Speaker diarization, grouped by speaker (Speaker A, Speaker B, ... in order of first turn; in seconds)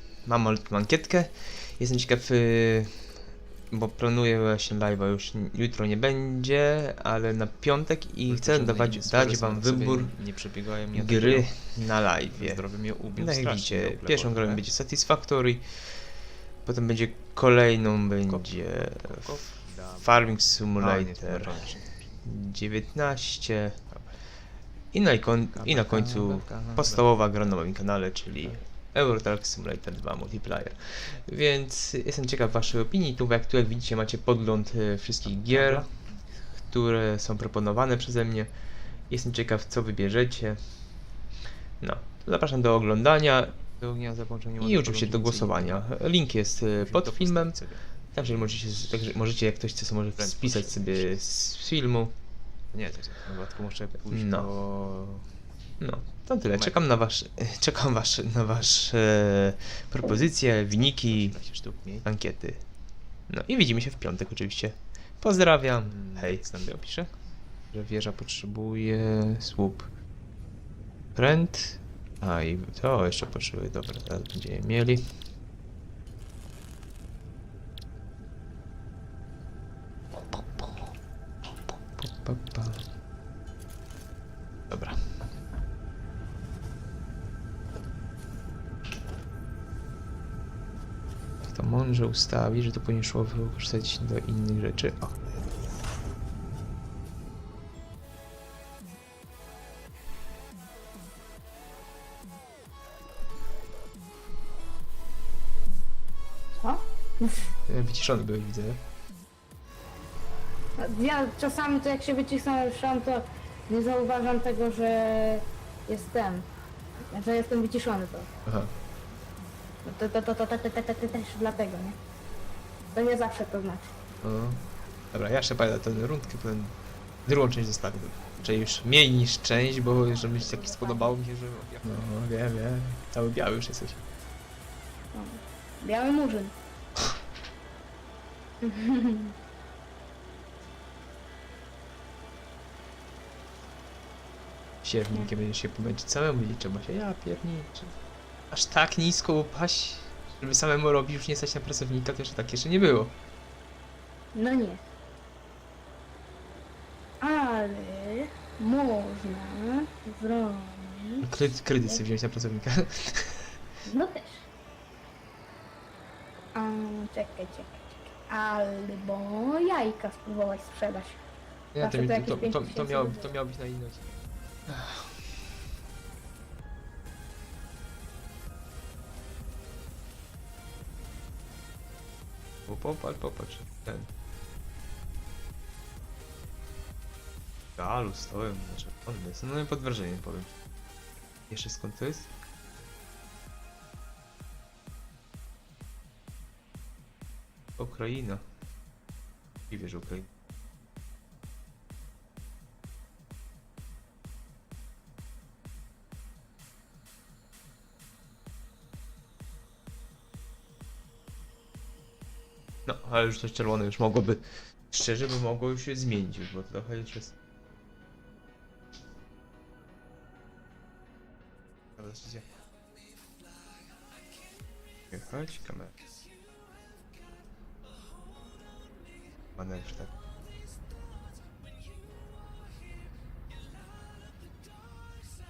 Speaker A: 0.2-10.1, 10.9-16.1, 16.6-23.8, 24.9-35.9, 36.6-38.5, 39.1-40.7, 41.8-43.7, 44.6-52.1, 54.1-54.5, 55.8-61.4, 62.0-62.7, 63.3-67.1, 67.7-69.9, 71.2-75.0, 80.4-80.8, 82.0-82.9, 84.7-85.0, 91.5-95.2, 107.7-108.8, 118.5-118.7, 124.2-124.6, 125.1-131.2, 131.8-134.1, 144.8-147.9, 148.5-153.2, 161.2-163.5, 171.7-174.1, 174.7-175.2, 182.7-184.1, 187.8-190.6, 191.5-192.3, 197.8-198.4, 199.7-200.3, 212.9-217.3, 222.0-222.5, 225.1-226.0, 229.6-230.1
Speaker B: 8.3-11.7, 12.3-14.6, 18.3-20.2, 20.8-22.1, 23.9-24.2, 25.5-27.1, 35.2-35.9, 43.8-45.9, 46.8-48.7, 50.2-51.2, 52.7-55.3, 56.5-56.8, 61.1-62.1, 65.8-66.9, 130.6-132.0
Speaker C: 106.6-107.5, 110.8-116.5, 117.1-118.3, 119.8-122.0, 122.9-123.9, 130.0-131.2, 135.1-136.6, 138.6-139.3, 154.3-154.8, 157.2-161.3, 163.9-164.5, 166.6-171.2, 171.8-173.4